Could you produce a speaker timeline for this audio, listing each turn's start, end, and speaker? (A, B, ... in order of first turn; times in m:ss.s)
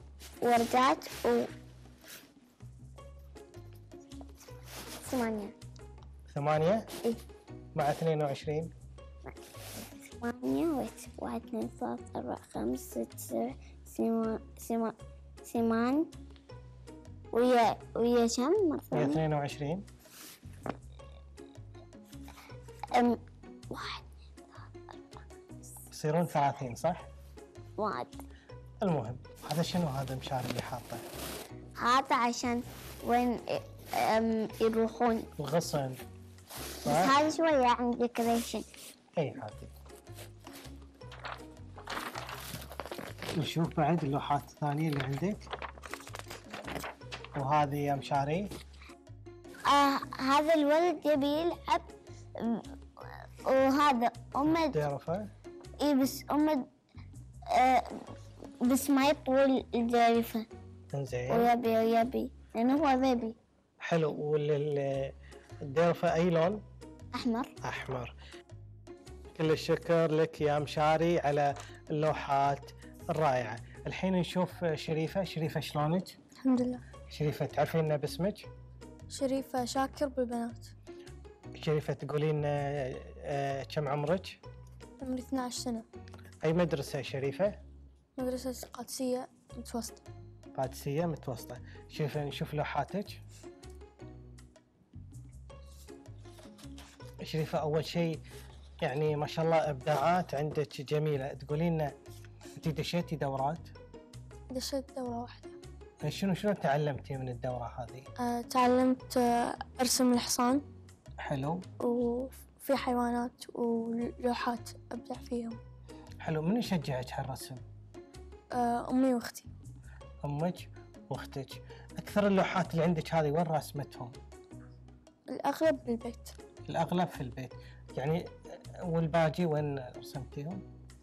0:00.4-0:01.5 A
0:05.0-0:05.6 A
0:06.3-0:06.9 B
0:07.7-0:08.7 B
0:10.0-0:16.1 A
0:17.3-0:19.2 A
0:18.9-0:19.8 B
0:22.9-0:24.6 A
0:25.9-0:27.0 B
0:27.8-0:28.2 A
0:28.8-0:31.0 B
0:31.8-0:35.3 A
0:35.4-0:36.0 B
0:36.8-0:38.7 A
0:36.8-0:37.2 B
0:39.2-0:39.7 B
0:43.4-0:45.5 B
0:47.4-0:48.5 B
0:49.7-0:54.8 A
0:54.4-0:55.3 B
0:55.8-0:56.7 A
0:57.5-1:00.5 A
1:00.9-1:01.5 B
1:01.3-1:03.4 A
1:03.8-1:05.1 B
1:05.7-1:06.6 B
1:07.1-1:07.5 A
1:07.6-1:08.1 B
1:09.4-1:16.2 B
1:16.4-1:16.8 C
1:17.1-1:18.5 B
1:19.1-1:20.7 C
1:21.6-1:24.4 B
1:25.0-1:25.8 C
1:26.4-1:27.6 B
1:28.2-1:30.0 C
1:30.6-1:33.2 B
1:37.2-1:38.2 B
1:38.8-1:41.9 B
1:42.6-1:43.7 B
1:44.5-1:45.6 C
1:46.0-1:48.1 B
1:48.2-1:50.6 C
1:51.2-1:51.6 B
1:51.8-1:55.6 C
1:56.2-1:57.6 B
1:58.5-1:59.5 C
2:00.2-2:04.2 B
2:05.3-2:06.4 C
2:06.7-2:10.6 B